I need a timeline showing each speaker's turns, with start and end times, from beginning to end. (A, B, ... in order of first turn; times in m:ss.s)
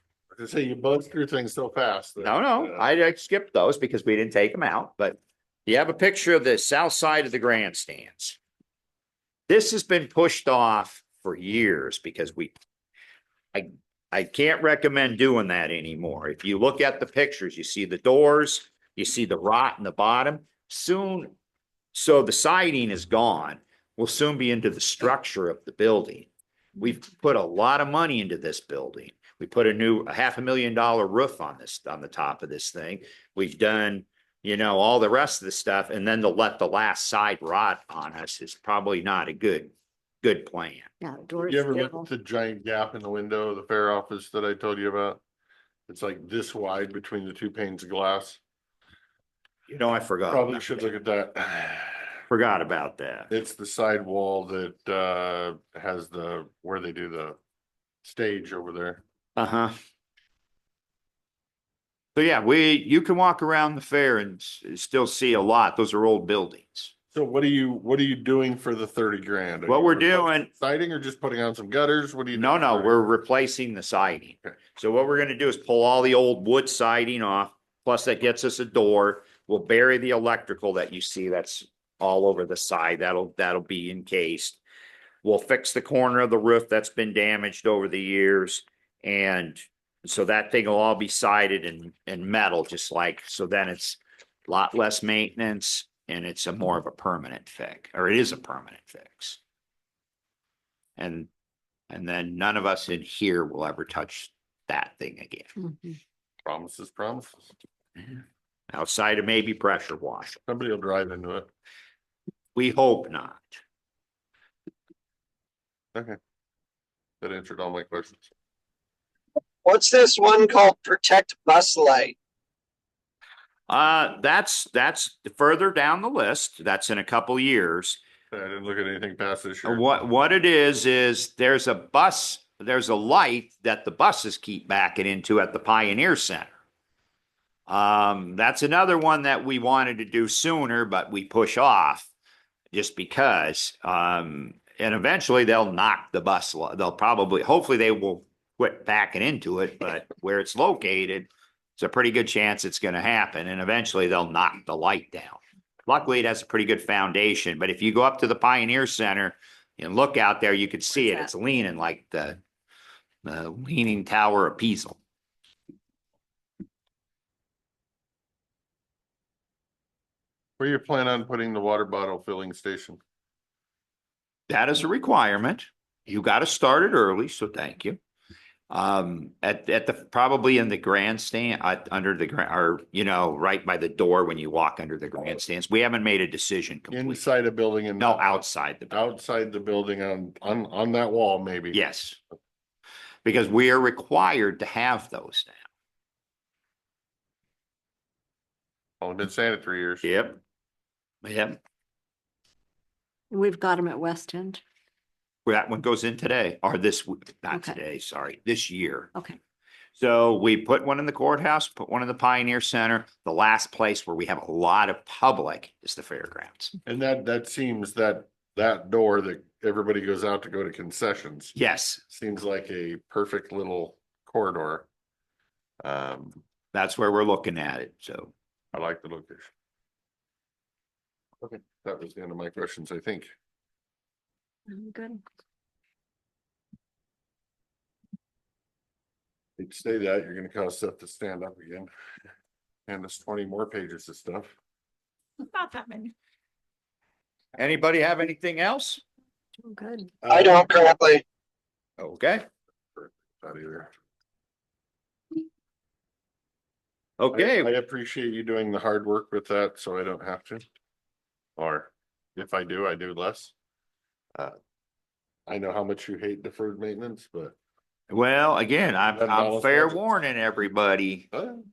0:00.3-0:02.9 A
0:02.2-0:08.4 B
0:09.5-0:12.5 B
0:13.5-0:21.3 B
0:21.9-0:39.7 B
0:40.2-0:40.9 B
0:41.0-0:42.1 C
0:41.4-0:45.2 A
0:45.9-0:48.4 A
0:49.7-0:50.8 B
0:50.3-0:52.1 A
0:52.3-0:53.3 B
0:53.3-0:57.4 A
0:58.0-0:59.0 A
0:59.4-0:59.7 B
1:02.2-1:06.9 B
1:07.1-1:13.0 A
1:09.7-1:10.5 B
1:12.3-1:24.6 B
1:25.2-1:39.4 B
1:41.0-1:41.3 B
1:41.9-1:45.6 B
1:45.7-1:45.9 C
1:46.4-1:47.5 A
1:48.7-1:50.4 B
1:50.5-1:51.5 A
1:52.5-1:53.5 B
1:57.2-1:58.3 A
1:59.6-2:02.2 D
2:03.7-2:08.0 B
2:08.3-2:09.8 A
2:09.6-2:16.5 B
2:17.7-2:22.1 B
2:22.7-2:42.4 B
2:43.2-2:45.0 B
2:50.6-2:53.0 A
2:54.5-2:58.0 B
2:58.7-3:07.2 B
3:06.9-3:11.8 A
3:08.0-3:09.0 B
3:11.7-3:12.2 B
3:13.2-3:15.6 B
3:19.0-3:20.0 A
3:20.0-3:20.4 B
3:21.2-3:21.6 B
3:23.3-3:24.6 C
3:25.4-3:29.1 B
3:27.5-3:27.8 C
3:30.0-3:36.7 B
3:36.8-3:41.5 A
3:41.5-3:42.0 B
3:42.1-3:44.9 A
3:45.8-3:46.4 A
3:46.7-3:48.3 B
3:48.7-3:49.5 A
3:51.4-3:53.3 A
3:54.7-3:55.2 C
3:59.6-4:01.9 A
4:02.9-4:04.5 A
4:05.5-4:06.1 B
4:07.6-4:09.0 B
4:09.6-4:10.1 C
4:10.2-4:10.7 A
4:10.3-4:11.2 D
4:12.0-4:12.4 B
4:13.0-4:13.9 A
4:17.2-4:17.7 B
4:17.3-4:20.6 A
4:21.6-4:23.5 A
4:25.5-4:27.6 A
4:28.1-4:31.3 B
4:29.1-4:30.0 A
4:31.3-4:31.6 A